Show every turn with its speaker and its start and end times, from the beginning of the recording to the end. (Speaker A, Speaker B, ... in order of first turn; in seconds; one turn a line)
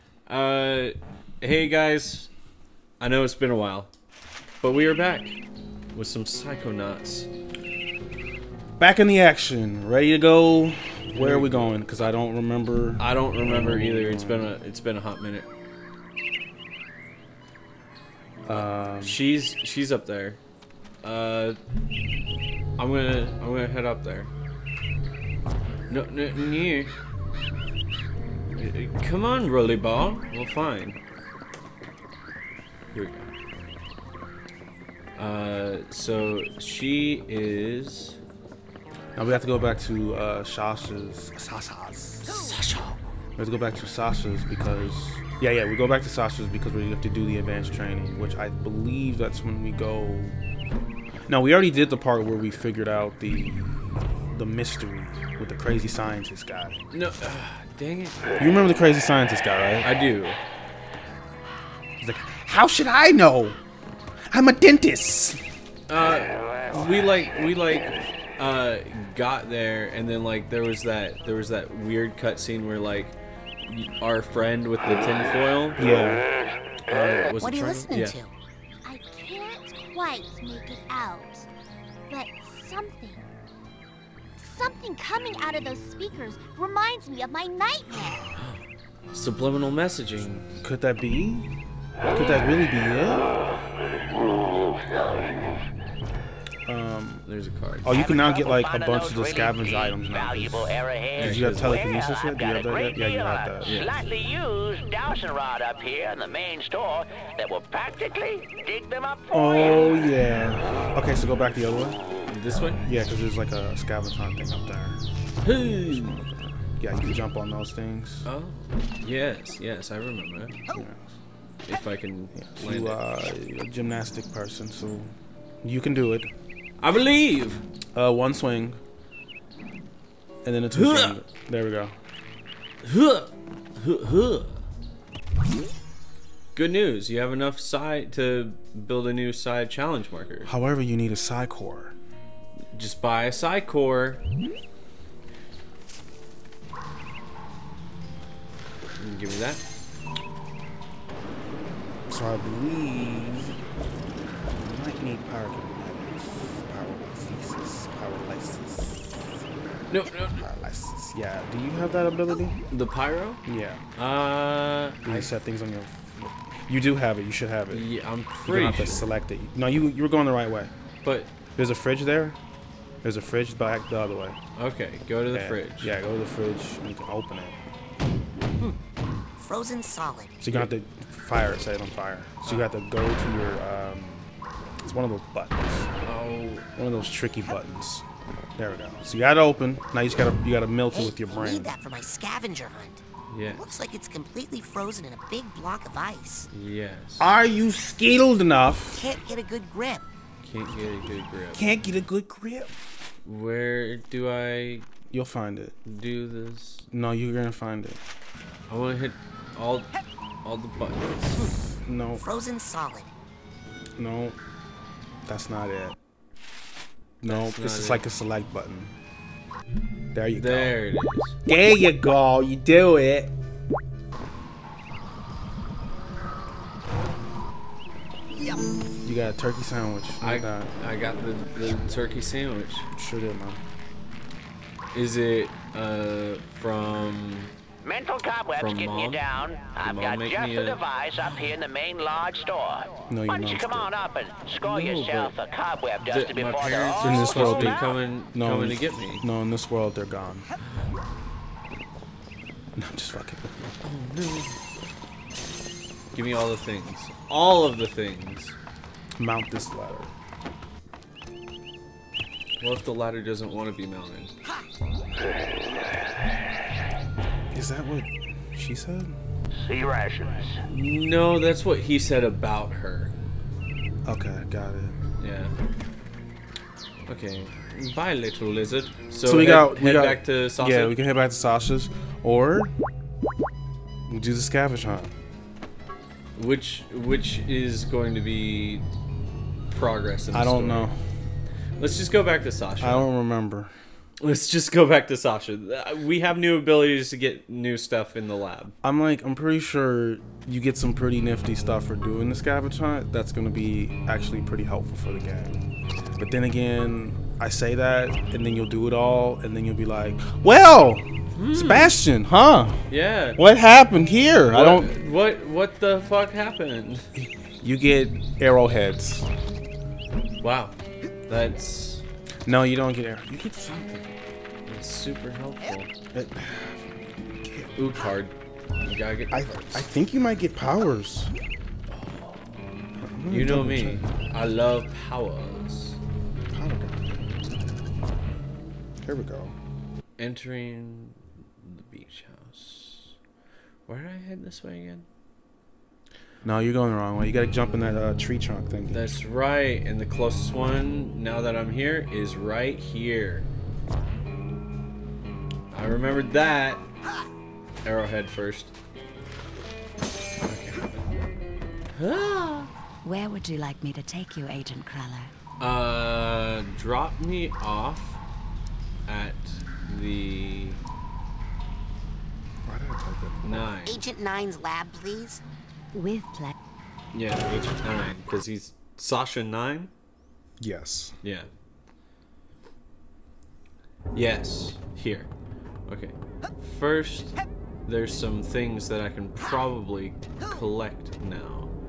Speaker A: 0.3-2.3
Speaker A: 3.0-3.9
Speaker A: 4.6-5.4
Speaker A: 5.9-7.3
Speaker B: 8.8-14.5
Speaker A: 11.1-11.8
Speaker A: 13.0-15.5
Speaker B: 18.5-19.2
Speaker A: 18.9-20.4
Speaker A: 21.0-21.6
Speaker A: 22.8-24.3
Speaker A: 25.9-26.9
Speaker A: 28.5-31.0
Speaker A: 32.9-33.3
Speaker A: 35.2-38.2
Speaker B: 39.1-42.5
Speaker A: 42.3-43.0
Speaker B: 43.4-50.4
Speaker B: 51.3-56.8
Speaker A: 56.9-58.4
Speaker B: 58.4-59.9
Speaker A: 59.8-60.4
Speaker B: 62.0-63.6
Speaker B: 64.3-65.4
Speaker A: 65.9-73.2
Speaker A: 73.7-75.8
Speaker B: 75.8-76.2
Speaker A: 76.9-78.2
Speaker C: 77.4-78.4
Speaker D: 78.8-81.5
Speaker D: 82.1-83.3
Speaker D: 84.4-88.3
Speaker A: 89.1-90.5
Speaker B: 90.6-91.5
Speaker B: 92.0-93.3
Speaker B: 96.7-97.2
Speaker A: 97.3-98.1
Speaker B: 97.8-103.8
Speaker E: 97.9-109.9
Speaker A: 101.2-101.9
Speaker A: 103.6-104.0
Speaker B: 109.3-112.0
Speaker A: 112.3-112.8
Speaker B: 112.8-115.0
Speaker A: 115.4-116.2
Speaker B: 115.9-118.3
Speaker A: 118.2-120.6
Speaker B: 120.7-121.2
Speaker A: 121.7-123.0
Speaker B: 122.3-126.3
Speaker A: 126.8-127.6
Speaker B: 128.0-128.8
Speaker B: 130.4-132.0
Speaker A: 130.7-131.2
Speaker A: 132.8-134.6
Speaker A: 136.6-140.5
Speaker B: 140.5-141.9
Speaker A: 142.7-144.2
Speaker A: 148.9-149.6
Speaker B: 152.1-153.6
Speaker B: 154.6-159.3
Speaker A: 159.9-160.4
Speaker B: 160.3-162.6
Speaker A: 162.7-163.4
Speaker B: 163.4-163.8
Speaker A: 164.0-165.4
Speaker B: 165.0-167.9
Speaker A: 167.7-169.1
Speaker B: 168.4-170.7
Speaker A: 171.0-171.3
Speaker B: 171.6-172.4
Speaker B: 173.0-174.4
Speaker A: 174.6-176.0
Speaker B: 175.3-177.6
Speaker C: 179.4-180.4
Speaker B: 180.4-184.3
Speaker A: 182.4-182.8
Speaker B: 184.8-185.9
Speaker A: 186.0-186.7
Speaker B: 186.8-188.1
Speaker B: 188.6-191.7
Speaker C: 190.9-193.0
Speaker A: 193.3-193.7
Speaker C: 193.5-196.5
Speaker A: 196.5-197.3
Speaker B: 197.2-199.1
Speaker C: 198.9-200.1
Speaker A: 200.4-201.7
Speaker B: 201.5-202.7
Speaker A: 203.2-204.9
Speaker B: 205.1-205.8
Speaker A: 205.8-206.9
Speaker B: 206.9-208.0
Speaker A: 208.7-211.5
Speaker B: 211.8-212.2
Speaker C: 212.2-213.1
Speaker B: 214.0-214.4
Speaker B: 215.3-216.0
Speaker B: 217.2-218.9
Speaker A: 217.2-218.0
Speaker B: 220.1-220.8
Speaker A: 220.4-221.4
Speaker B: 221.5-223.3
Speaker B: 229.0-230.7
Speaker A: 230.2-232.9
Speaker B: 232.9-233.6
Speaker A: 234.9-237.5
Speaker E: 237.8-247.9
Speaker A: 238.6-239.2
Speaker A: 239.8-240.8
Speaker B: 243.1-243.9
Speaker A: 244.6-245.3
Speaker A: 246.0-249.3
Speaker B: 247.0-250.5
Speaker B: 252.8-253.8
Speaker A: 253.8-254.6
Speaker A: 256.1-258.6
Speaker B: 259.2-260.1
Speaker A: 262.6-264.3
Speaker B: 267.5-269.2
Speaker A: 270.6-273.1
Speaker B: 274.1-274.9
Speaker A: 275.2-275.5
Speaker A: 277.1-281.0
Speaker B: 279.2-282.7
Speaker B: 284.1-285.1
Speaker A: 286.4-288.9
Speaker A: 289.7-290.9
Speaker B: 290.3-291.0
Speaker A: 291.8-293.1
Speaker B: 292.8-293.7
Speaker A: 294.2-298.7
Speaker B: 298.8-312.8
Speaker A: 311.4-312.0
Speaker A: 312.9-313.4
Speaker B: 313.4-314.9
Speaker A: 314.5-317.1
Speaker B: 317.1-319.3
Speaker A: 320.4-320.8
Speaker A: 321.3-322.0
Speaker B: 322.5-324.2
Speaker A: 324.7-325.9
Speaker B: 326.1-327.8
Speaker A: 327.8-329.8
Speaker B: 329.3-331.3
Speaker A: 331.9-332.6
Speaker B: 333.0-334.1
Speaker A: 333.3-336.0
Speaker B: 336.5-337.3
Speaker B: 339.0-339.6
Speaker A: 340.2-343.1
Speaker A: 343.9-345.1
Speaker B: 346.4-349.1
Speaker A: 348.9-353.5
Speaker A: 355.7-356.9
Speaker A: 357.8-358.7
Speaker A: 360.4-360.9
Speaker A: 361.9-362.7
Speaker F: 363.0-365.3
Speaker A: 365.6-368.2
Speaker A: 369.1-370.8
Speaker B: 372.6-373.7
Speaker A: 373.4-374.0
Speaker C: 373.9-375.4
Speaker F: 375.9-376.6
Speaker A: 377.1-379.9
Speaker B: 380.6-381.1
Speaker A: 381.2-381.5
Speaker A: 384.1-385.3
Speaker A: 385.9-391.7